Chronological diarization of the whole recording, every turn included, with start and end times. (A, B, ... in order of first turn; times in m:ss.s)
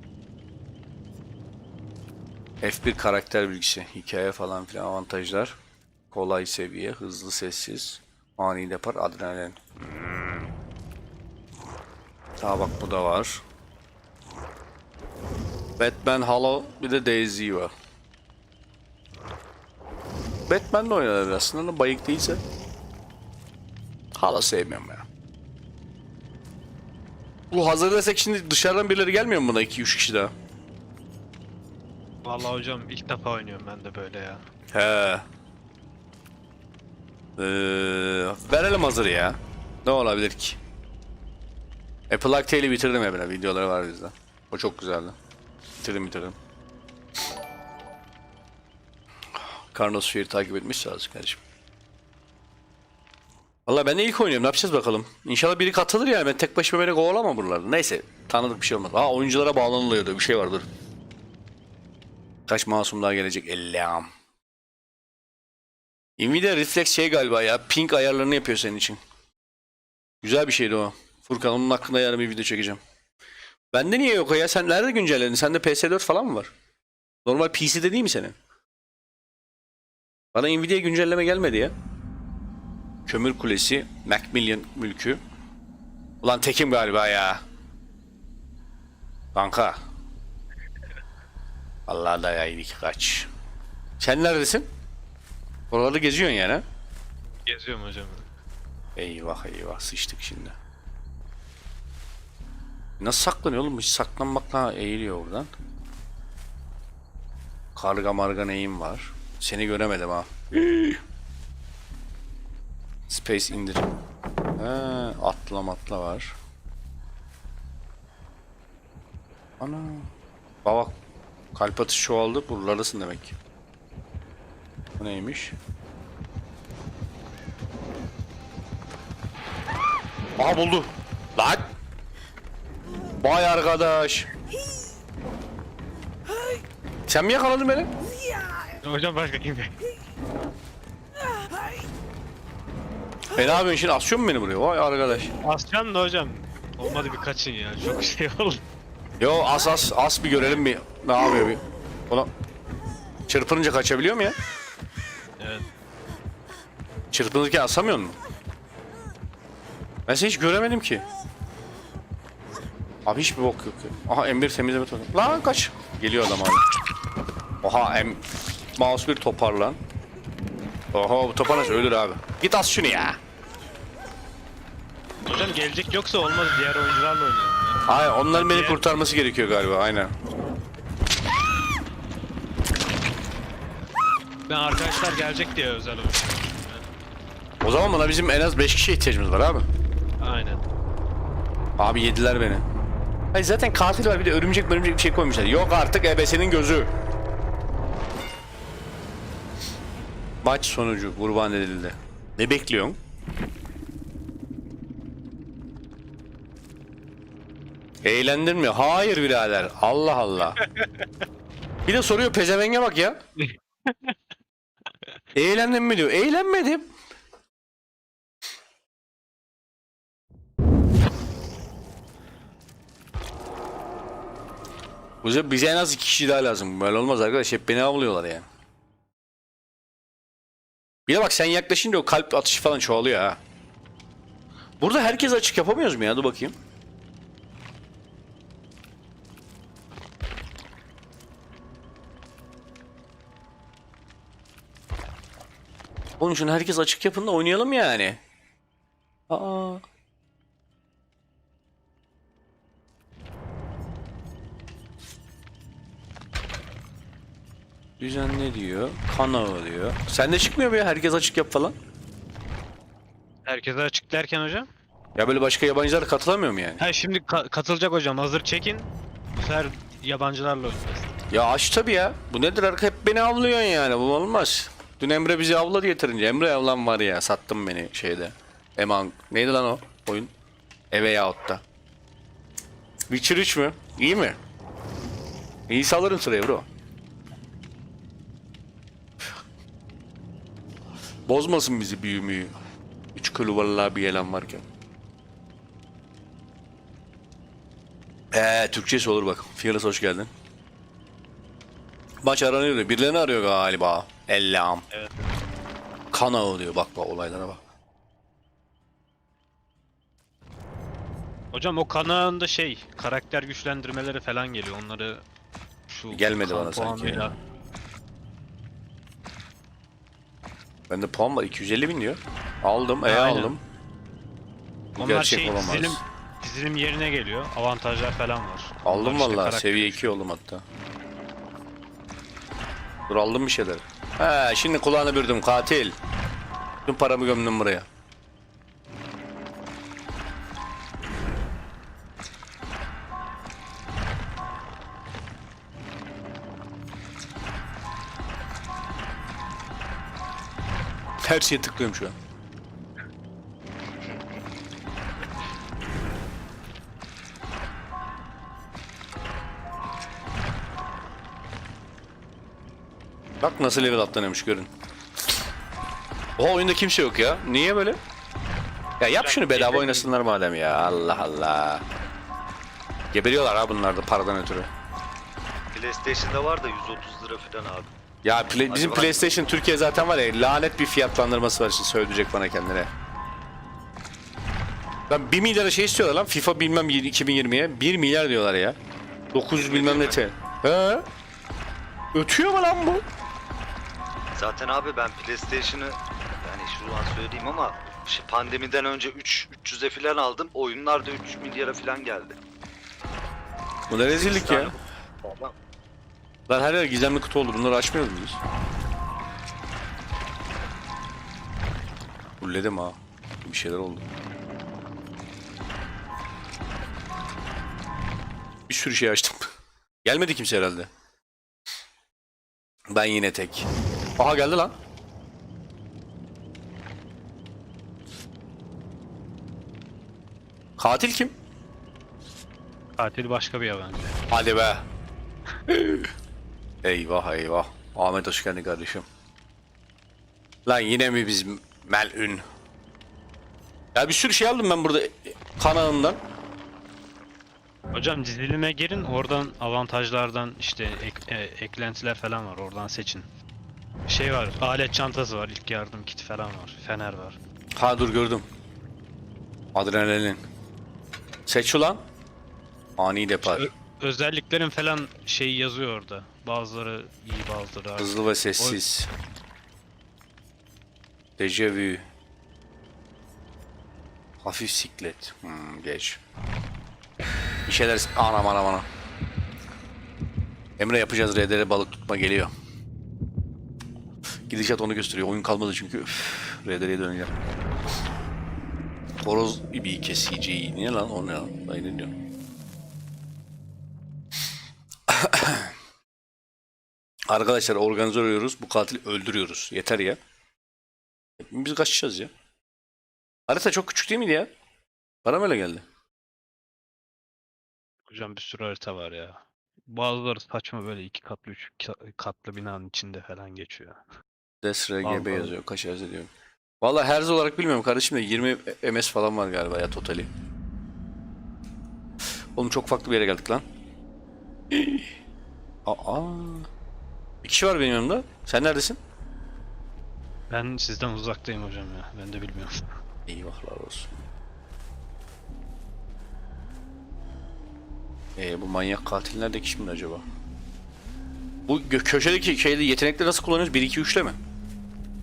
0:02.6-0:05.5 A
0:06.1-0:10.5 A
0:12.4-0:13.4 A
0:15.8-0:17.7 A
0:20.5-0:22.4 A
0:24.1-0:25.0 A
0:27.5-0:30.3 A
0:32.2-0:34.4 B
0:34.7-0:35.2 A
0:37.4-0:40.6 A
0:42.1-0:45.1 A
0:45.8-0:46.4 A
0:49.7-0:51.4 A
0:53.6-1:00.7 A
1:02.5-1:04.1 A
1:06.2-1:09.0 A
1:10.2-1:12.8 A
1:13.7-1:16.5 A
1:17.2-1:18.3 A
1:20.3-1:21.7 A
1:23.0-1:25.2 A
1:26.2-1:27.4 A
1:29.3-1:29.8 A
1:31.9-1:33.3 A
1:34.0-1:34.7 A
1:35.7-1:36.6 A
1:37.5-1:38.2 B
1:39.0-1:40.5 A
1:43.0-1:45.5 A
1:47.8-1:51.0 A
1:53.1-1:53.9 A
1:54.6-1:56.3 A
1:59.6-2:00.1 A
2:00.6-2:00.9 A
2:01.5-2:03.3 A
2:05.0-2:05.5 A
2:10.4-2:11.7 A
2:13.2-2:14.3 A
2:17.1-2:17.9 A
2:18.8-2:19.7 B
2:23.3-2:25.3 A
2:25.4-2:28.6 B
2:29.2-2:32.3 A
2:33.3-2:34.4 A
2:35.4-2:35.6 B
2:37.1-2:38.2 A
2:40.1-2:41.0 A
2:43.0-2:46.6 A
2:47.6-2:49.8 A
2:50.9-2:53.2 A
2:55.3-2:58.8 B
2:57.9-3:00.1 A
3:04.5-3:06.9 B
3:07.6-3:09.6 A
3:10.2-3:10.6 B
3:11.8-3:12.6 A
3:13.3-3:16.9 A
3:20.4-3:23.0 A
3:28.0-3:30.6 A
3:31.8-3:33.2 A
3:33.4-3:34.1 B
3:35.3-3:36.8 A
3:45.2-3:48.4 A
3:51.1-3:53.4 A
3:54.8-3:56.5 A
4:06.2-4:08.2 A
4:09.3-4:09.8 A
4:18.0-4:21.7 A
4:23.4-4:24.7 B
4:25.2-4:26.8 A
4:26.8-4:31.2 B
4:31.3-4:40.3 A
4:40.9-4:41.6 A
4:43.1-4:44.4 A
4:45.7-4:46.6 A
4:51.3-4:52.5 A
4:53.1-4:54.6 A
4:58.3-5:00.3 A
5:02.2-5:04.8 A
5:04.9-5:05.2 B
5:06.1-5:07.6 A
5:11.5-5:15.2 B
5:15.9-5:17.3 B
5:16.1-5:17.3 A
5:20.9-5:23.6 A
5:23.0-5:23.6 B
5:25.0-5:26.0 A
5:25.0-5:30.2 B
5:28.8-5:30.6 A
5:33.1-5:36.0 A
5:36.8-5:37.8 A
5:51.2-5:52.1 A
6:03.4-6:04.7 A
6:06.4-6:08.0 A
6:09.0-6:11.8 A
6:09.2-6:10.1 B
6:13.1-6:14.7 A
6:15.7-6:17.9 C
6:18.2-6:22.9 A
6:18.6-6:19.3 C
6:25.1-6:28.8 A
6:29.3-6:31.0 A
6:29.6-6:30.2 C
6:32.1-6:33.0 A
6:34.3-6:42.4 C
6:43.9-6:44.7 A
6:44.1-6:45.5 C
6:46.5-6:48.4 A
6:52.4-6:54.0 A
6:58.7-6:59.5 A
7:00.0-7:00.9 A
7:02.9-7:04.7 A
7:10.8-7:11.3 A
7:13.0-7:14.2 B
7:14.3-7:14.8 A
7:15.7-7:16.1 A
7:16.8-7:19.0 A
7:20.6-7:22.4 A
7:23.9-7:26.2 A
7:27.9-7:33.2 B
7:34.1-7:37.4 B
7:37.8-7:38.4 A
7:39.7-7:40.4 A
7:41.5-7:42.0 A
7:43.0-7:43.7 A
7:43.4-7:48.8 B
7:48.0-7:49.1 A
7:51.4-7:52.0 A
7:54.4-7:56.2 A
7:57.7-7:58.9 A
8:00.8-8:02.5 A
8:04.5-8:07.3 A
8:09.2-8:12.1 A
8:15.1-8:15.7 A
8:17.3-8:20.2 A
8:21.4-8:22.3 A
8:23.5-8:24.5 A
8:25.2-8:25.8 A
8:28.1-8:34.0 B
8:34.6-8:36.3 A
8:35.0-8:35.5 B
8:36.8-8:40.3 A
8:42.6-8:43.6 A
8:44.7-8:45.0 A
8:45.8-8:46.7 A
8:47.4-8:49.0 A
8:50.5-8:52.9 B
8:53.3-8:54.2 A
8:58.4-9:00.2 A
9:01.7-9:04.4 A